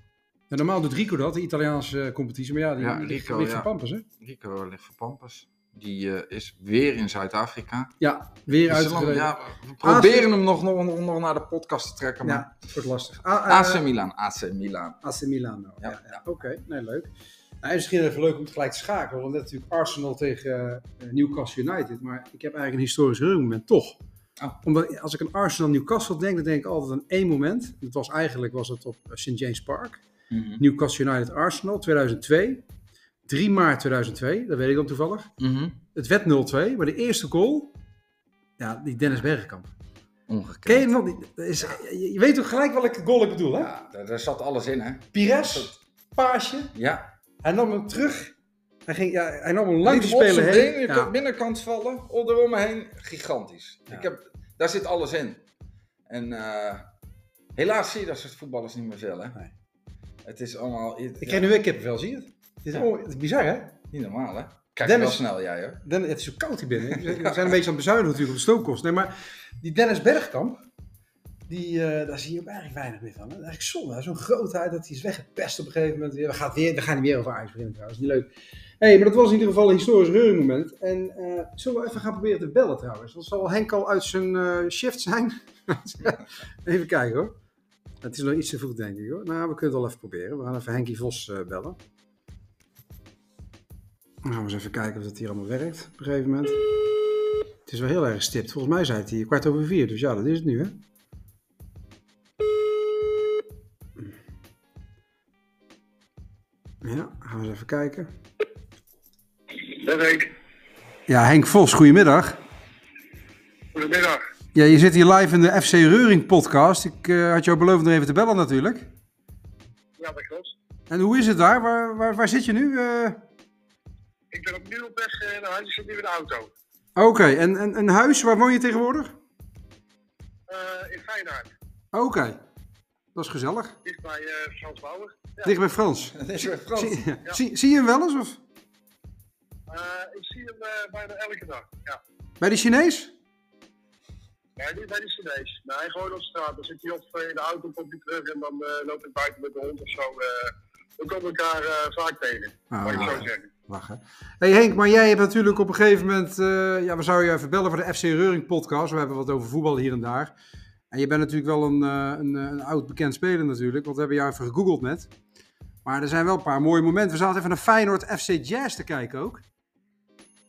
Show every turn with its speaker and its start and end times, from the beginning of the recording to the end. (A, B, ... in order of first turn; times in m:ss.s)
0:00.5-0:04.0 A
0:02.8-0:03.7 B
0:04.2-0:08.0 B
0:08.0-0:10.3 A
0:08.6-0:12.5 B
0:12.2-0:13.8 A
0:13.5-0:15.0 B
0:15.0-0:17.1 A
0:15.8-0:16.2 B
0:17.6-0:24.0 A
0:24.6-0:30.0 A
0:30.3-0:30.6 B
0:30.6-0:32.6 A
0:33.3-0:35.3 A
0:35.4-0:35.8 B
0:35.9-0:37.8 A
0:38.6-0:39.7 A
0:40.3-0:40.9 B
0:40.7-0:43.7 A
0:43.6-0:45.7 B
0:45.1-0:46.7 A
0:46.8-0:47.1 B
0:47.4-0:48.3 A
0:48.9-0:51.1 A
0:49.8-0:55.4 B
0:56.1-0:56.9 B
0:57.6-0:59.4 B
1:00.2-1:01.5 B
1:01.2-1:03.8 A
1:03.9-1:05.8 B
1:04.8-1:05.2 A
1:05.8-1:10.6 A
1:06.9-1:07.5 B
1:11.5-1:27.4 A
1:28.0-1:31.8 A
1:34.2-1:36.6 A
1:37.7-1:40.8 A
1:46.8-1:48.1 A
1:49.5-1:50.3 C
1:51.1-1:52.4 A
1:53.7-1:54.2 C
1:54.5-1:58.9 A
2:00.0-2:00.6 C
2:00.9-2:03.2 A
2:04.3-2:06.5 C
2:07.0-2:09.2 A
2:10.5-2:11.5 C
2:11.9-2:12.4 A
2:13.2-2:13.8 A
2:13.8-2:15.5 C
2:15.4-2:18.4 A
2:16.2-2:17.1 B
2:19.7-2:22.0 C
2:22.4-2:23.1 A
2:24.6-2:33.5 C
2:32.7-2:40.3 A
2:32.9-2:33.2 B
2:40.9-2:45.1 A
2:45.8-2:49.4 A